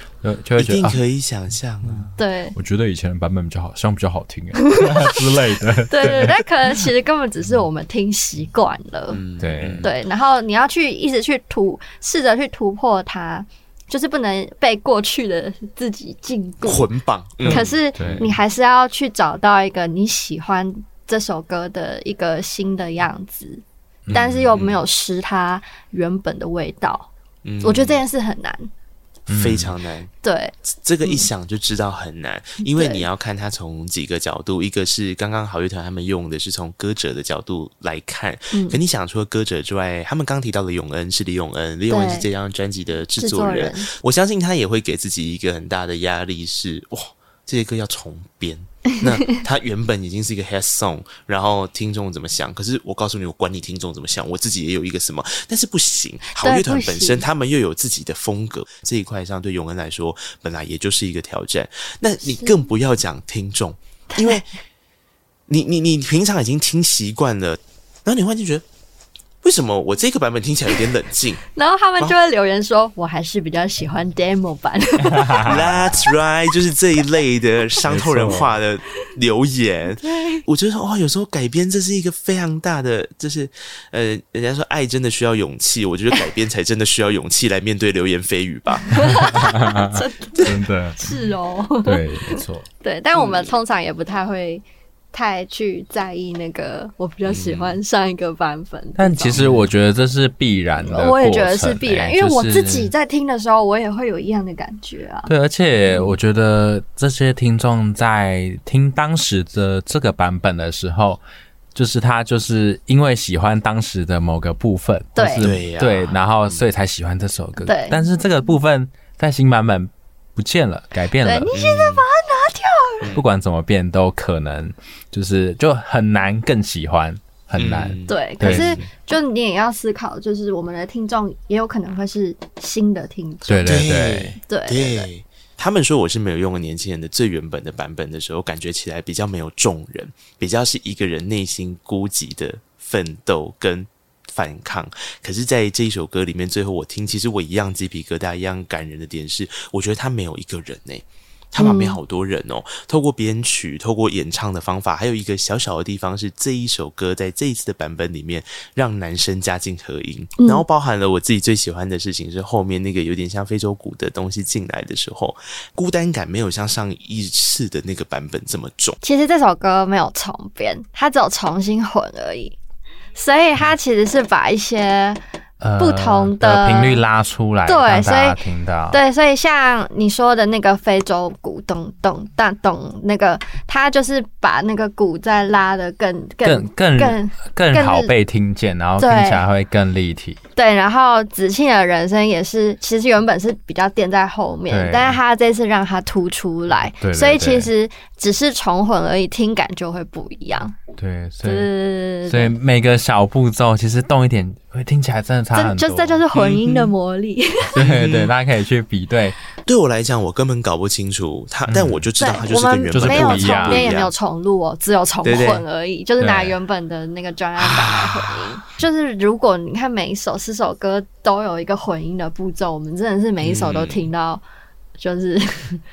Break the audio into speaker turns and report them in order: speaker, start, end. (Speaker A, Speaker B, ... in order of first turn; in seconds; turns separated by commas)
Speaker A: 0.2-1.0, Speaker B: 0.6-2.1, Speaker A: 1.9-6.4, Speaker C: 2.2-2.5, Speaker C: 4.8-5.1, Speaker C: 5.9-9.2, Speaker B: 9.1-9.9, Speaker A: 9.4-9.9, Speaker C: 9.8-16.9, Speaker B: 16.6-18.4, Speaker A: 17.4-18.4, Speaker C: 17.5-27.1, Speaker A: 24.1-24.5, Speaker B: 24.5-24.8, Speaker B: 27.4-28.0, Speaker C: 27.6-28.7, Speaker B: 29.3-30.1, Speaker A: 29.3-29.7, Speaker C: 30.2-31.3, Speaker B: 30.7-64.5, Speaker C: 32.6-33.1, Speaker C: 38.5-38.8, Speaker C: 41.9-42.3, Speaker C: 43.2-43.9, Speaker C: 56.4-57.2, Speaker C: 62.2-62.6, Speaker C: 64.1-64.4, Speaker B: 65.5-68.7, Speaker B: 69.4-71.4, Speaker C: 71.5-75.5, Speaker A: 75.3-75.5, Speaker B: 75.4-89.4, Speaker A: 77.9-78.5, Speaker C: 80.0-80.4, Speaker C: 88.8-99.4, Speaker A: 89.0-91.2, Speaker A: 91.8-92.7, Speaker B: 93.1-93.5, Speaker B: 97.3-97.8, Speaker A: 99.0-102.9, Speaker B: 99.3-99.7, Speaker C: 100.8-105.3, Speaker A: 105.3-111.2, Speaker B: 105.9-106.2, Speaker A: 111.8-121.6, Speaker C: 115.2-115.5, Speaker B: 115.4-116.6, Speaker C: 117.7-118.0, Speaker C: 121.2-123.0, Speaker B: 121.5-122.0, Speaker B: 123.0-123.3, Speaker A: 123.2-128.8, Speaker B: 127.6-128.9, Speaker C: 128.1-133.8, Speaker A: 133.5-134.4, Speaker B: 133.6-169.0, Speaker C: 134.5-135.1, Speaker C: 151.6-152.0, Speaker C: 160.4-160.7, Speaker C: 169.0-172.6, Speaker C: 173.2-175.2, Speaker A: 175.6-179.0, Speaker C: 175.8-177.0, Speaker C: 177.7-178.4, Speaker C: 178.9-188.1, Speaker A: 186.4-190.4, Speaker C: 189.0-189.4, Speaker C: 190.6-200.8, Speaker A: 194.7-195.2, Speaker A: 197.0-197.7, Speaker A: 201.0-201.7, Speaker C: 201.4-202.5, Speaker A: 202.3-206.2, Speaker C: 205.5-207.7, Speaker B: 206.3-206.9, Speaker A: 207.7-209.4, Speaker B: 207.8-208.3, Speaker B: 209.7-214.1, Speaker A: 211.7-212.0, Speaker C: 212.2-224.4, Speaker A: 212.9-213.9, Speaker B: 215.2-215.6, Speaker A: 216.2-216.6, Speaker B: 217.6-218.4, Speaker B: 223.4-224.1, Speaker C: 225.0-225.8